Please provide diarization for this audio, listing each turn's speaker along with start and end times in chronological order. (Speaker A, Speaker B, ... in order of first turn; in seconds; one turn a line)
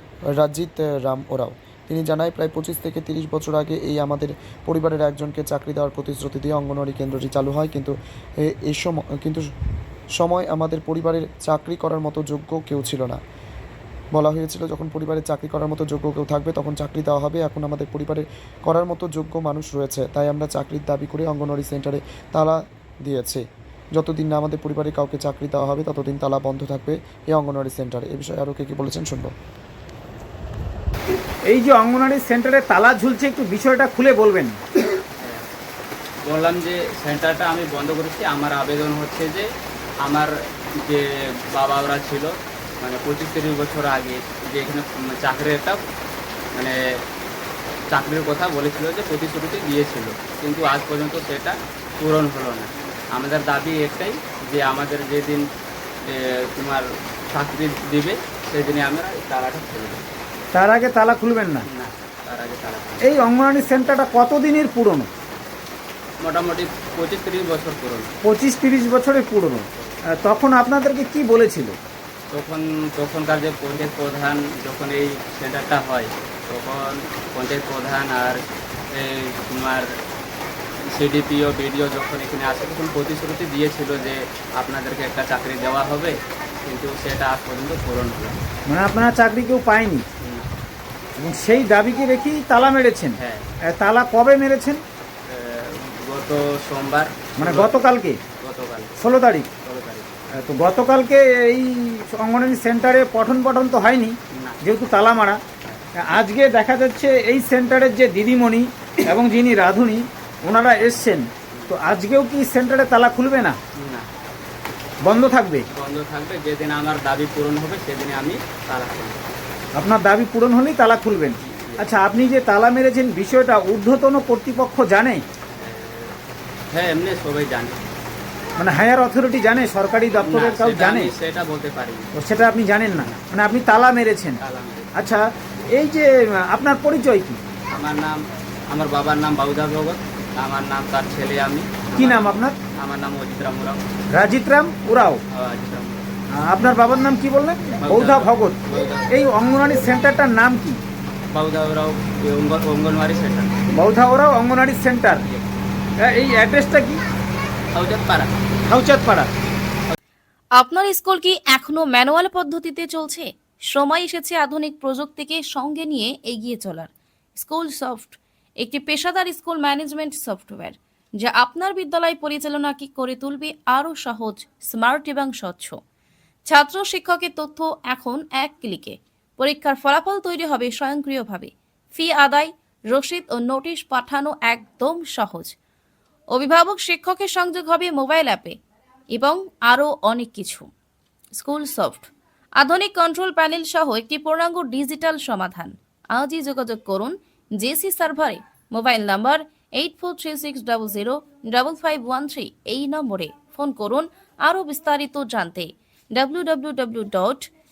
Speaker A: 0.3-9.5
Speaker A: 10.2-13.2
Speaker A: 14.1-29.3
Speaker B: 31.5-34.6
Speaker C: 35.2-35.5
Speaker C: 36.2-39.5
Speaker C: 40.0-45.8
Speaker C: 47.9-55.4
Speaker C: 56.0-60.0
Speaker B: 60.5-61.6
Speaker C: 61.7-63.2
Speaker B: 63.0-65.1
Speaker C: 66.2-68.1
Speaker B: 68.2-71.8
Speaker C: 72.3-79.8
Speaker C: 80.9-88.4
Speaker B: 88.7-90.0
Speaker C: 90.2-90.5
Speaker B: 91.2-94.8
Speaker C: 93.2-93.4
Speaker C: 95.2-98.9
Speaker B: 97.4-98.2
Speaker B: 99.0-99.5
Speaker C: 99.6-100.1
Speaker B: 100.4-105.4
Speaker C: 104.3-104.6
Speaker B: 106.0-113.6
Speaker C: 113.8-114.1
Speaker B: 115.0-115.7
Speaker C: 115.7-119.3
Speaker B: 119.7-125.2
Speaker C: 121.4-121.9
Speaker C: 125.5-126.2
Speaker C: 126.7-127.8
Speaker B: 128.6-131.1
Speaker C: 130.2-132.1
Speaker B: 132.2-134.4
Speaker C: 134.4-134.9
Speaker B: 134.9-137.4
Speaker C: 137.7-143.8
Speaker B: 141.9-142.6
Speaker B: 144.1-145.2
Speaker C: 145.3-146.2
Speaker B: 146.3-148.6
Speaker C: 147.8-149.1
Speaker B: 149.1-150.8
Speaker C: 151.3-153.6
Speaker B: 153.7-155.2
Speaker B: 156.0-157.0
Speaker C: 157.7-158.3
Speaker B: 158.7-159.3
Speaker D: 160.6-175.8
Speaker D: 176.5-185.6
Speaker D: 186.3-188.6
Speaker D: 189.1-190.7
Speaker D: 191.3-207.5